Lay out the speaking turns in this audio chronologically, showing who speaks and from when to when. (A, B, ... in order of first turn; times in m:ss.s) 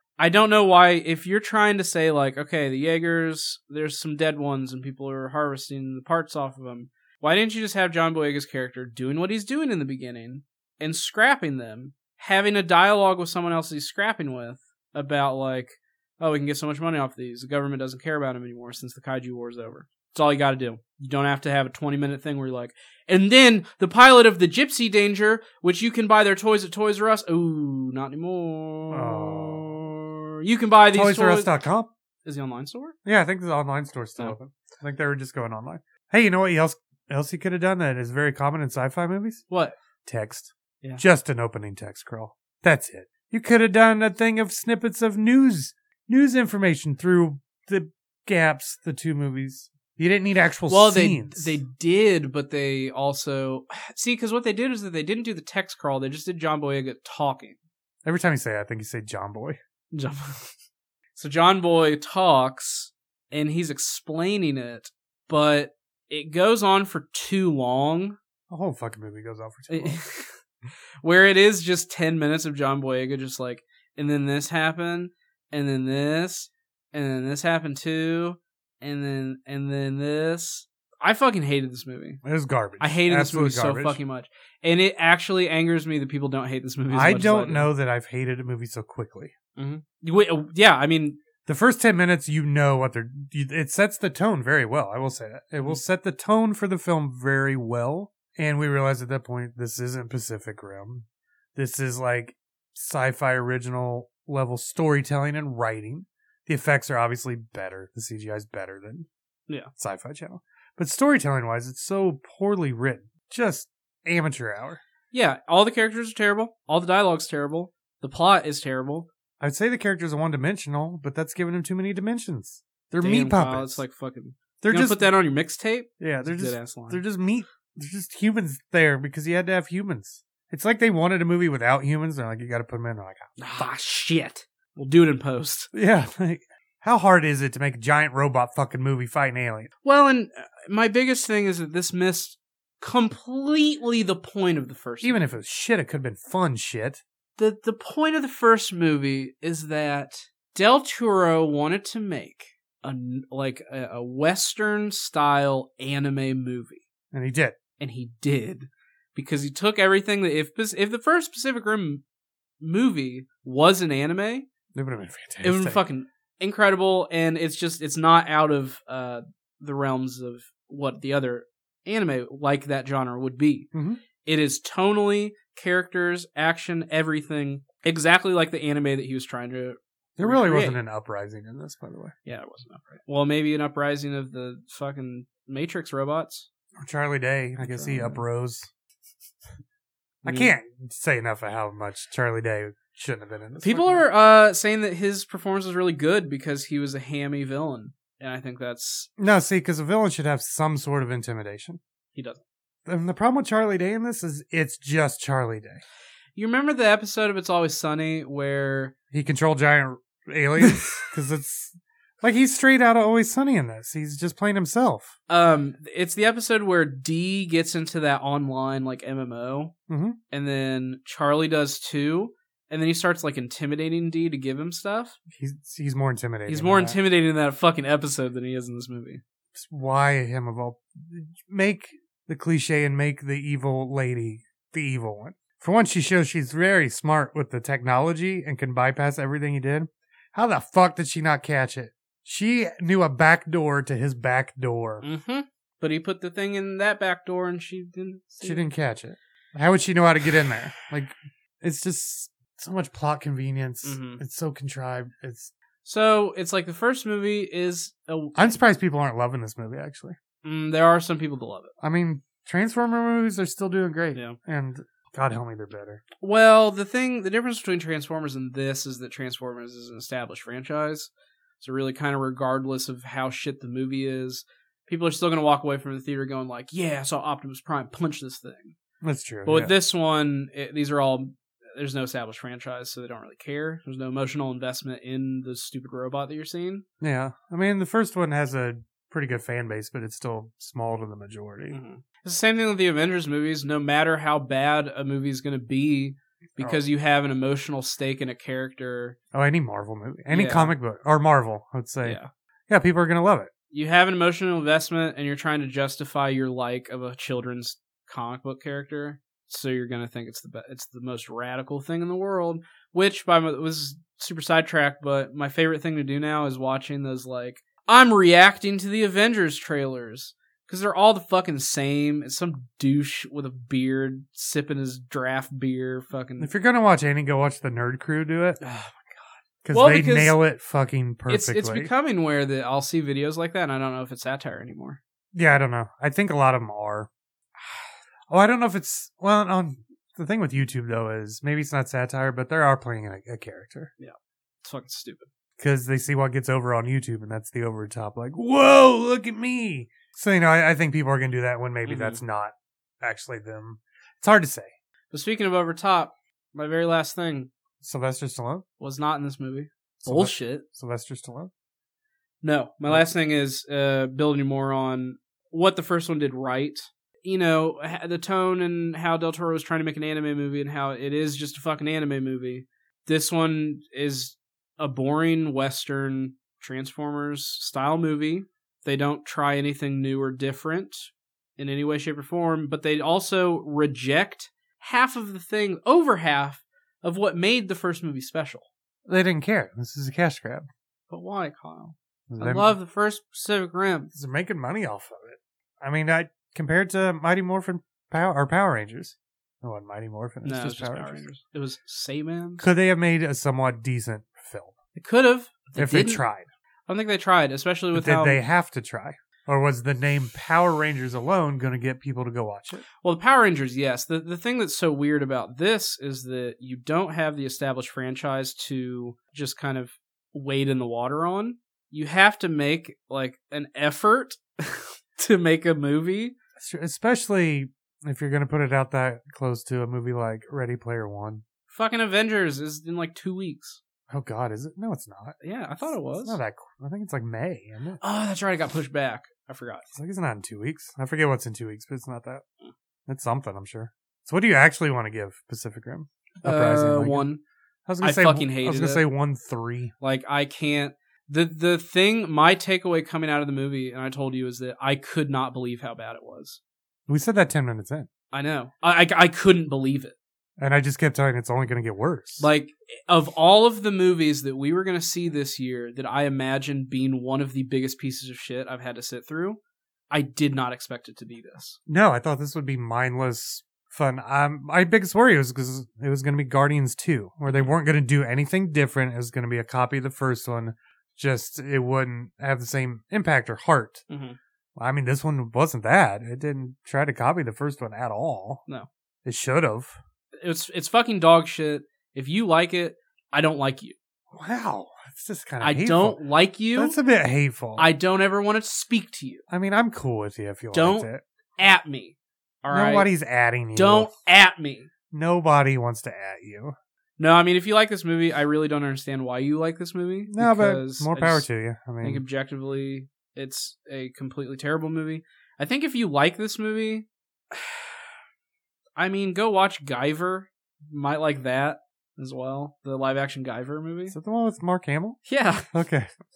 0:00.2-0:31.5 A
0:28.9-0:29.8 B
0:30.9-0:31.9 B
0:32.2-0:33.0 A
0:33.0-0:39.4 B
0:39.5-0:39.8 A
0:40.0-0:51.6 B
0:50.7-0:57.6 A
0:58.0-0:59.6 B
0:59.9-1:00.5 A
1:01.2-1:08.2 A
1:08.5-1:10.0 B
1:09.7-1:10.4 A
1:11.0-1:22.2 A
1:22.2-1:24.0 B
1:22.8-1:27.7 A
1:26.9-1:29.3 B
1:29.6-1:31.2 A
1:31.5-1:49.1 B
1:49.8-1:54.8 B
1:55.1-1:59.1 A
1:59.4-2:03.8 B
2:03.0-2:07.0 A
2:04.6-2:05.1 B
2:06.0-2:13.4 B
2:13.4-2:15.7 A
2:15.7-2:19.7 B
2:19.8-2:25.2 A
2:25.0-2:27.0 B
2:27.4-2:36.8 A
2:37.1-2:37.6 B
2:37.8-2:42.0 A
2:42.6-2:44.5 A
2:44.8-2:45.8 B
2:45.4-2:53.7 A
2:53.7-2:54.0 B
2:54.2-3:00.8 A
3:00.2-3:02.1 B
3:02.3-3:06.5 A
3:06.8-3:08.7 B
3:07.6-3:08.2 A
3:10.2-3:10.5 A
3:10.2-3:14.0 B
3:13.6-3:19.1 A
3:19.2-3:21.8 B
3:22.1-3:22.4 A
3:22.9-3:25.8 B
3:26.4-3:28.9 A
3:29.1-3:35.2 B
3:30.6-3:31.1 A
3:35.3-3:39.7 A
3:39.9-3:40.2 B
3:40.3-3:45.2 A
3:45.3-3:47.0 B
3:46.5-3:49.2 A
3:49.5-4:05.1 B
4:05.0-4:08.7 A
4:08.4-4:15.5 B
4:13.8-4:14.2 A
4:15.8-4:18.5 A
4:18.4-4:20.2 B
4:20.4-4:21.7 A
4:21.8-4:26.0 B
4:26.2-4:38.8 A
4:39.0-4:39.8 B
4:39.5-4:46.8 A
4:47.0-4:51.8 B
4:51.7-4:59.2 A
4:56.6-4:56.8 B
4:59.3-5:03.5 B
5:00.3-5:00.7 A
5:03.7-5:26.5 A
5:26.4-5:28.6 B
5:28.6-5:30.4 A
5:29.6-5:31.9 B
5:31.3-5:35.0 A
5:35.3-5:37.1 B
5:38.3-5:43.9 B
5:44.0-5:45.3 A
5:45.6-5:54.7 B
5:51.9-5:52.2 A
5:55.1-5:57.5 A
5:57.8-5:58.6 B
5:58.8-6:00.6 A
6:00.0-6:01.5 B
6:02.4-6:28.7 A
6:29.1-6:30.7 B
6:31.1-6:34.1 A
6:32.3-6:32.7 B
6:34.1-6:41.3 B
6:40.4-6:42.6 A
6:42.6-6:44.8 B
6:45.0-6:46.2 A
6:45.8-6:46.5 B
6:46.9-6:48.4 A
6:47.9-6:52.8 B
6:53.0-7:06.4 A
7:06.6-7:11.4 B
7:11.7-7:13.8 A
7:14.1-7:15.4 B
7:15.4-7:16.4 A
7:16.2-7:18.0 B
7:18.0-7:19.9 A
7:19.9-7:22.4 B
7:23.1-7:27.3 B
7:26.4-7:27.4 A
7:27.9-7:29.9 B
7:28.0-7:29.0 A
7:30.0-7:36.6 A
7:37.1-7:38.1 B
7:38.3-7:40.2 A
7:40.6-7:42.5 B
7:42.4-7:49.6 A
7:50.1-7:51.8 A
7:51.9-8:04.0 B
8:04.1-8:04.4 A
8:04.8-8:08.6 B
8:09.2-8:10.0 B
8:10.4-8:14.0 A
8:14.3-8:16.2 B
8:15.6-8:17.0 A
8:16.7-8:17.9 B
8:17.8-8:19.4 A
8:19.5-8:21.2 B
8:20.7-8:23.1 A
8:22.7-8:24.2 B
8:23.8-8:24.9 A
8:25.1-8:26.8 B
8:27.2-8:31.5 A
8:30.3-8:32.2 B
8:32.0-8:38.0 A
8:39.0-8:44.2 A
8:44.1-8:46.1 B
8:45.3-8:45.7 A